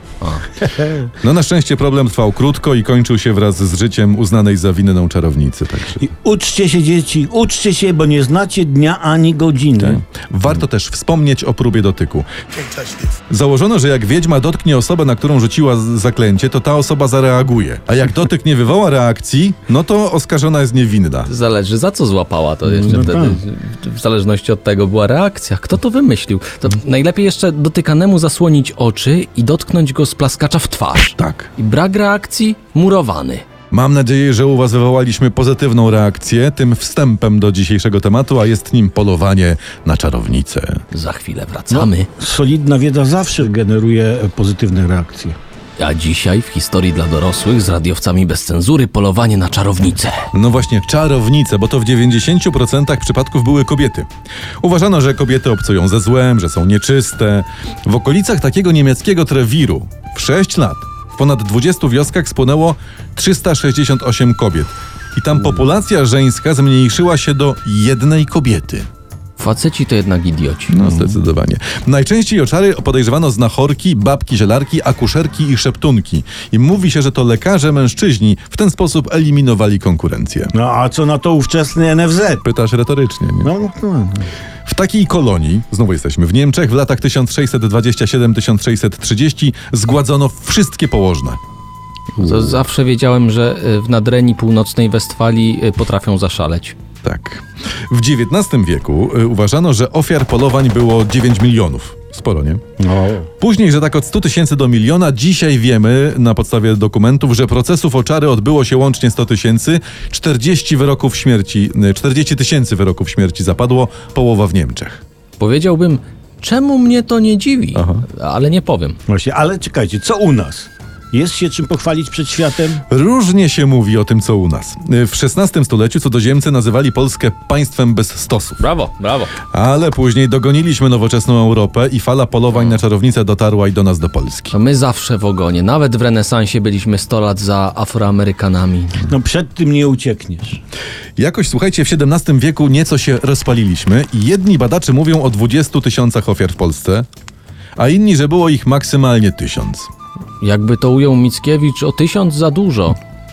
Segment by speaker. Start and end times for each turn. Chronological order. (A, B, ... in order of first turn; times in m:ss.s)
0:00.7-0:01.0 A
0:01.2-0:06.0 B
0:06.0-0:10.0 A
0:09.8-0:21.3 B
0:21.2-0:33.4 C
0:22.7-0:23.4 A
0:31.2-0:31.5 B
0:33.7-0:40.8 B
0:40.9-0:42.1 C
0:41.7-0:45.4 A
0:45.8-0:50.3 C
0:50.3-0:54.1 B
0:54.6-1:08.9 B
1:09.4-1:10.8 C
1:10.7-1:20.5 B
1:10.8-1:11.1 A
1:20.5-1:22.4 A
1:22.4-1:23.5 B
1:23.4-1:24.3 A
1:24.6-1:31.4 B
1:32.2-1:36.8 C
1:32.2-1:32.6 B
1:37.0-1:42.6 B
1:42.8-1:43.3 A
1:43.4-1:55.0 B
1:55.4-1:59.0 C
1:57.7-1:58.0 B
1:59.1-2:02.8 A
2:02.9-2:08.6 B
2:08.6-2:09.3 C
2:09.5-2:14.5 B
2:14.5-2:19.0 C
2:19.1-2:20.6 A
2:21.2-2:27.0 B
2:27.8-2:29.9 B
2:30.4-2:33.0 C